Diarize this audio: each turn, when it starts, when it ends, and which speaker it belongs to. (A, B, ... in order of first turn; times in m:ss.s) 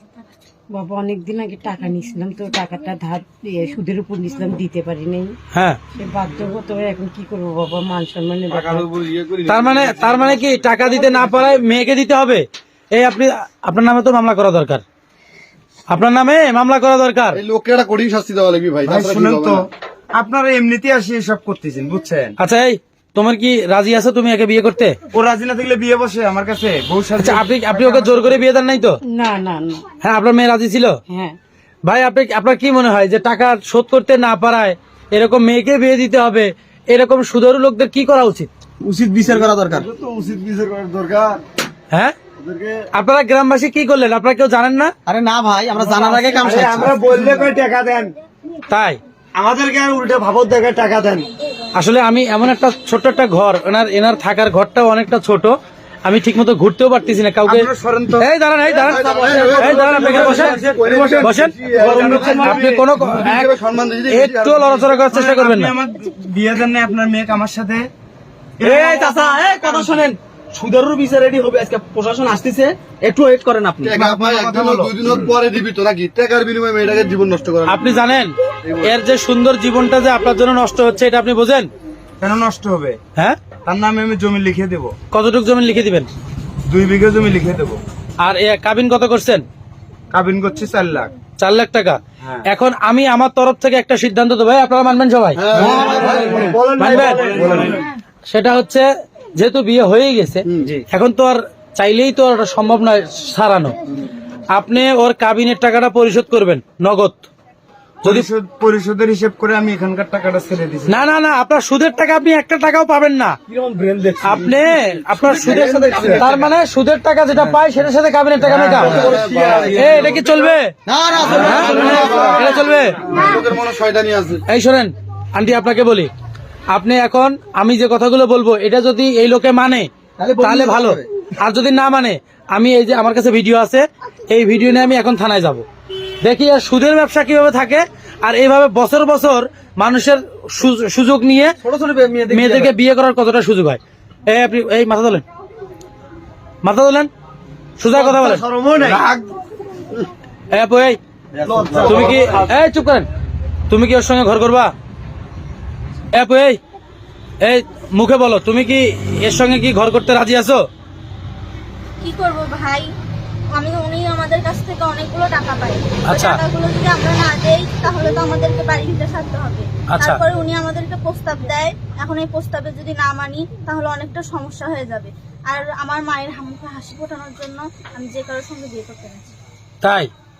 0:00.7-0:05.3 A
0:05.5-0:05.8 B
0:05.9-0:08.9 A
0:08.6-0:10.5 C
0:09.5-0:14.8 B
0:11.1-0:11.5 C
0:15.9-0:17.4 B
0:17.3-0:19.6 C
0:18.8-0:22.4 D
0:22.4-0:25.0 B
0:25.1-0:28.4 D
0:27.2-0:29.0 B
0:29.0-0:29.9 A
0:30.0-0:31.0 B
0:31.1-0:31.4 A
0:31.8-0:38.5 B
0:38.8-0:39.9 E
0:39.9-0:41.4 C
0:42.4-0:42.8 C
0:42.9-0:44.9 B
0:45.1-0:47.5 E
0:46.2-0:47.6 D
0:46.3-0:48.1 F
0:48.7-0:49.0 B
0:49.4-0:51.2 F
0:51.7-0:57.7 B
0:57.5-0:58.3 D
0:58.2-1:00.6 B
0:58.8-1:05.0 C
0:59.0-0:59.5 E
0:59.9-1:01.2 D
1:01.2-1:01.7 B
1:01.7-1:02.8 E
1:01.8-1:02.5 D
1:02.2-1:03.5 B
1:04.1-1:05.7 B
1:05.1-1:07.9 D
1:08.6-1:09.2 D
1:08.6-1:14.0 E
1:13.9-1:17.9 C
1:14.0-1:15.0 D
1:17.7-1:21.7 B
1:18.6-1:18.9 C
1:22.2-1:23.0 D
1:23.7-1:24.9 D
1:25.1-1:26.1 B
1:26.7-1:27.8 D
1:28.2-1:29.4 B
1:30.1-1:31.1 D
1:31.4-1:35.6 B
1:32.2-1:32.5 D
1:35.4-1:36.6 C
1:35.6-1:36.4 E
1:35.6-1:37.8 F
1:35.8-1:37.8 D
1:36.8-1:37.4 B
1:37.4-1:37.8 C
1:38.3-1:43.8 B
1:44.5-1:47.2 B
1:48.0-1:51.1 D
1:50.9-1:53.4 B
1:53.5-1:56.5 E
1:54.2-1:59.2 B
1:57.3-1:57.6 D
1:58.5-2:00.4 C
1:58.7-2:00.0 E
1:59.7-2:00.7 B
2:00.8-2:02.4 E
2:01.3-2:03.0 B
2:01.4-2:02.4 C
2:03.1-2:04.4 C
2:04.5-2:06.1 B
2:06.7-2:15.6 B
2:10.2-2:11.0 E
2:16.2-2:21.6 B
2:21.6-2:22.7 E
2:22.3-2:25.2 B
2:26.6-2:27.1 B
2:27.8-2:28.4 B
2:28.1-2:29.0 F
2:28.8-2:29.3 D
2:30.5-2:31.0 B
2:31.4-2:32.1 C
2:31.5-2:32.2 E
2:31.8-2:33.1 B
2:33.7-2:34.7 B
2:36.1-2:36.6 B
2:37.4-2:40.6 B
2:42.0-2:42.9 G
2:43.6-2:59.4 G
2:46.1-2:46.4 B
2:49.9-2:50.2 B
2:59.8-3:00.1 B